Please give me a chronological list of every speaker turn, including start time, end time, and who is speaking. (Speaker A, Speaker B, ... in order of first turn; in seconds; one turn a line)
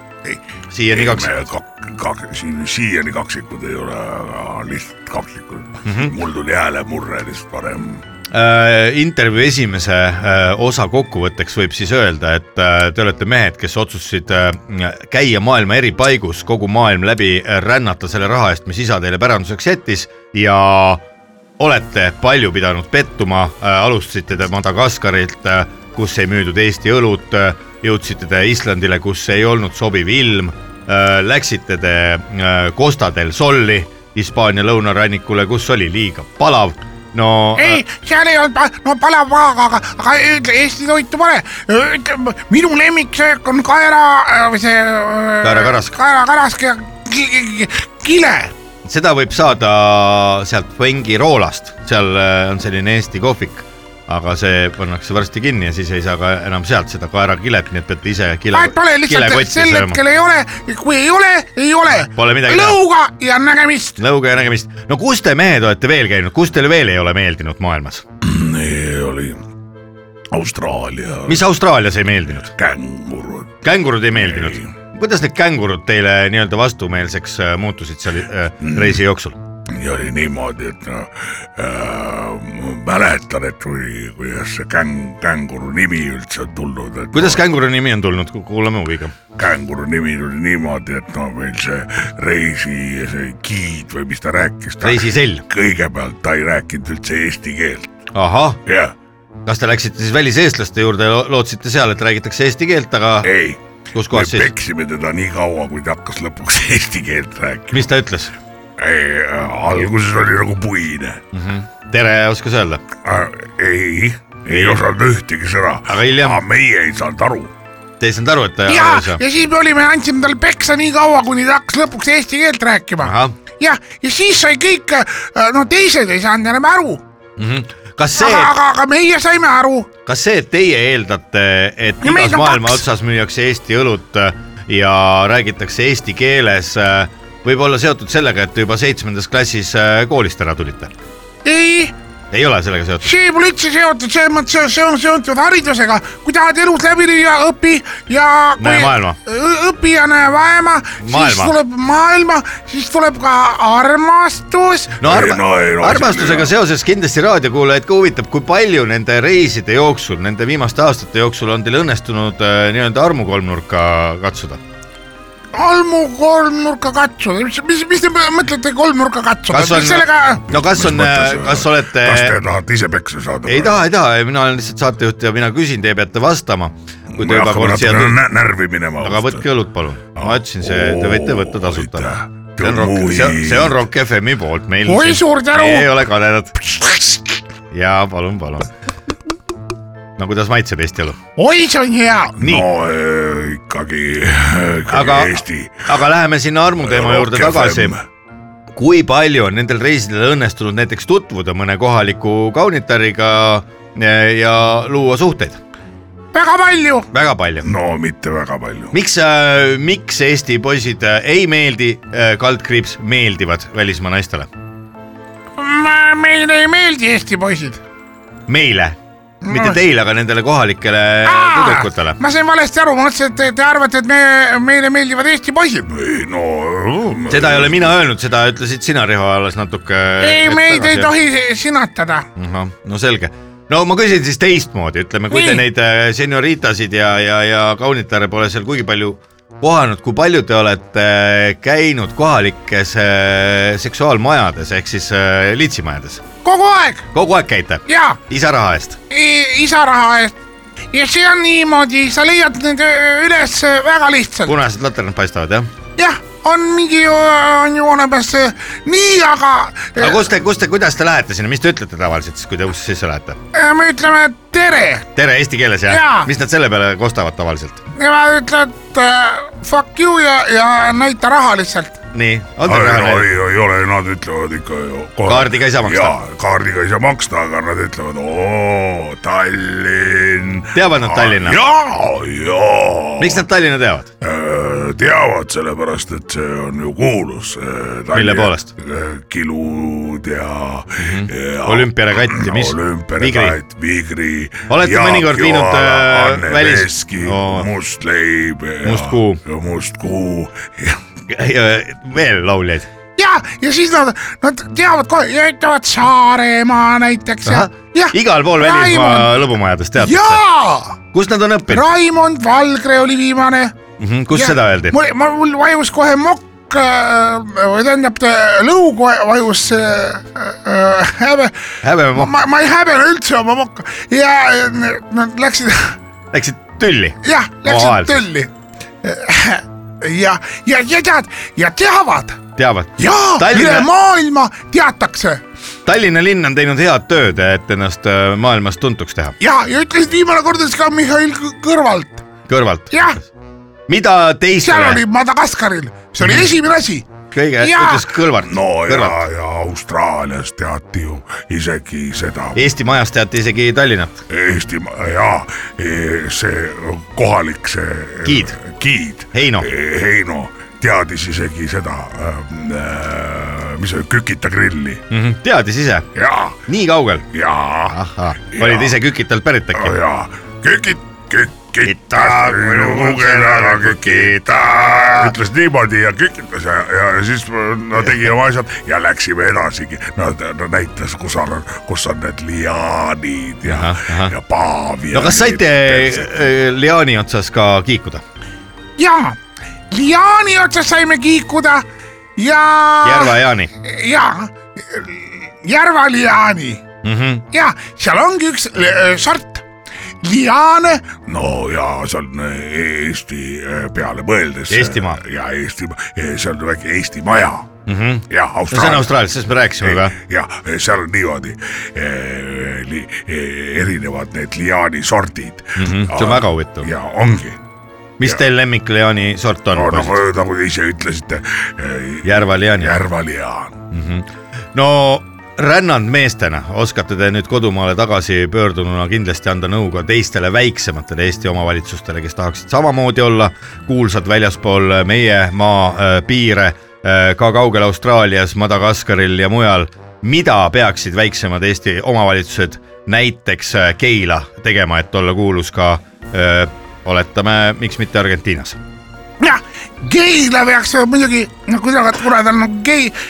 Speaker A: 0.2-8.0
Speaker B: 0.7-1.3
Speaker B: 5.8-6.1
Speaker B: 8.3-21.0
Speaker B: 21.6-37.8
Speaker C: 37.5-48.5
Speaker B: 45.4-45.9
Speaker B: 48.8-60.0
Speaker C: 58.5-64.0
Speaker B: 62.1-62.8
Speaker B: 64.0-68.0
Speaker A: 68.2-69.4
Speaker A: 70.3-71.5
Speaker B: 71.3-72.5
Speaker A: 72.5-74.7
Speaker B: 73.6-79.4
Speaker A: 78.6-79.0
Speaker A: 79.7-87.4
Speaker B: 87.1-89.1
Speaker A: 89.3-97.9
Speaker B: 94.8-95.4
Speaker B: 98.1-98.6
Speaker A: 98.6-98.9
Speaker B: 99.5-103.3
Speaker A: 103.2-107.9
Speaker B: 103.9-104.5
Speaker B: 107.7-108.3
Speaker A: 108.8-111.2
Speaker B: 111.3-112.8
Speaker A: 113.0-117.5
Speaker B: 114.5-114.8
Speaker B: 115.9-116.4
Speaker B: 118.0-119.2
Speaker C: 118.7-127.0
Speaker B: 123.0-123.3
Speaker B: 127.4-128.5
Speaker C: 128.2-129.9
Speaker B: 130.1-140.9
Speaker C: 132.0-132.8
Speaker C: 141.4-141.9
Speaker B: 142.3-143.1
Speaker C: 143.0-155.1
Speaker B: 148.6-149.2
Speaker B: 151.0-151.6
Speaker B: 155.0-164.6
Speaker A: 155.0-156.5
Speaker C: 165.5-170.5
Speaker B: 169.5-172.3
Speaker A: 170.5-173.8
Speaker B: 173.4-178.2
Speaker A: 177.1-179.4
Speaker B: 179.0-186.6
Speaker A: 180.2-183.8
Speaker C: 184.8-185.9
Speaker B: 187.7-188.7
Speaker B: 190.2-191.2
Speaker C: 191.4-192.4
Speaker B: 192.4-192.6
Speaker A: 192.4-195.9
Speaker B: 194.9-197.9
Speaker A: 196.8-198.0
Speaker B: 198.7-205.6
Speaker C: 206.3-207.1
Speaker B: 207.1-207.7
Speaker A: 207.6-208.9
Speaker B: 208.9-214.5
Speaker C: 215.6-217.8
Speaker B: 218.5-222.2
Speaker C: 219.4-219.8
Speaker C: 221.2-225.9
Speaker A: 225.9-227.9
Speaker B: 227.3-231.1
Speaker C: 230.2-232.2
Speaker B: 232.3-246.2
Speaker C: 235.3-235.6
Speaker C: 246.4-247.1
Speaker B: 247.1-249.0
Speaker C: 247.9-248.2
Speaker C: 249.1-250.3
Speaker C: 250.9-254.6
Speaker B: 254.4-255.7
Speaker C: 256.0-260.2
Speaker B: 260.0-263.4
Speaker C: 263.5-265.1
Speaker B: 265.1-267.8
Speaker C: 265.9-266.3
Speaker C: 267.9-272.0
Speaker B: 272.1-273.3
Speaker A: 272.6-283.4
Speaker B: 275.2-276.1
Speaker B: 280.7-281.6
Speaker B: 283.2-284.1
Speaker A: 284.2-301.0
Speaker B: 288.1-288.7
Speaker B: 291.0-293.6
Speaker B: 294.7-297.7
Speaker B: 298.8-299.4
Speaker B: 301.3-302.9
Speaker C: 303.2-309.3
Speaker B: 307.4-310.4
Speaker C: 310.0-311.0
Speaker B: 311.1-311.9
Speaker C: 311.7-313.8
Speaker B: 314.0-314.9
Speaker C: 314.3-321.5
Speaker B: 321.8-322.3
Speaker C: 322.1-326.0
Speaker B: 326.3-328.2
Speaker C: 327.2-328.5
Speaker C: 329.0-332.4
Speaker B: 332.6-333.9
Speaker C: 333.0-335.4
Speaker B: 335.8-339.4
Speaker C: 339.4-342.2
Speaker B: 342.5-343.1
Speaker C: 342.9-343.2
Speaker B: 343.9-345.0
Speaker C: 344.6-347.1
Speaker B: 346.2-346.5
Speaker B: 347.3-349.2
Speaker C: 347.6-348.1
Speaker A: 348.4-352.7
Speaker B: 352.5-354.2
Speaker A: 354.3-365.0
Speaker B: 358.2-358.6
Speaker B: 359.3-359.7
Speaker B: 365.1-366.1
Speaker A: 366.1-366.6
Speaker B: 366.6-367.3
Speaker A: 367.3-368.0
Speaker B: 367.9-369.9
Speaker A: 368.5-369.0
Speaker A: 369.7-386.3
Speaker B: 371.8-375.3
Speaker B: 383.6-384.3
Speaker B: 385.1-388.2
Speaker C: 389.0-389.4
Speaker C: 389.9-391.9
Speaker C: 392.4-396.8
Speaker B: 393.0-393.7
Speaker B: 397.0-397.4
Speaker C: 397.5-399.6
Speaker C: 400.2-401.2
Speaker A: 401.2-407.7
Speaker B: 404.7-405.2
Speaker B: 407.9-410.1
Speaker A: 408.3-409.1
Speaker A: 409.8-417.6
Speaker B: 415.8-416.9
Speaker B: 418.2-420.2
Speaker A: 419.7-423.8
Speaker B: 422.2-423.0
Speaker B: 423.9-448.8
Speaker C: 449.4-453.1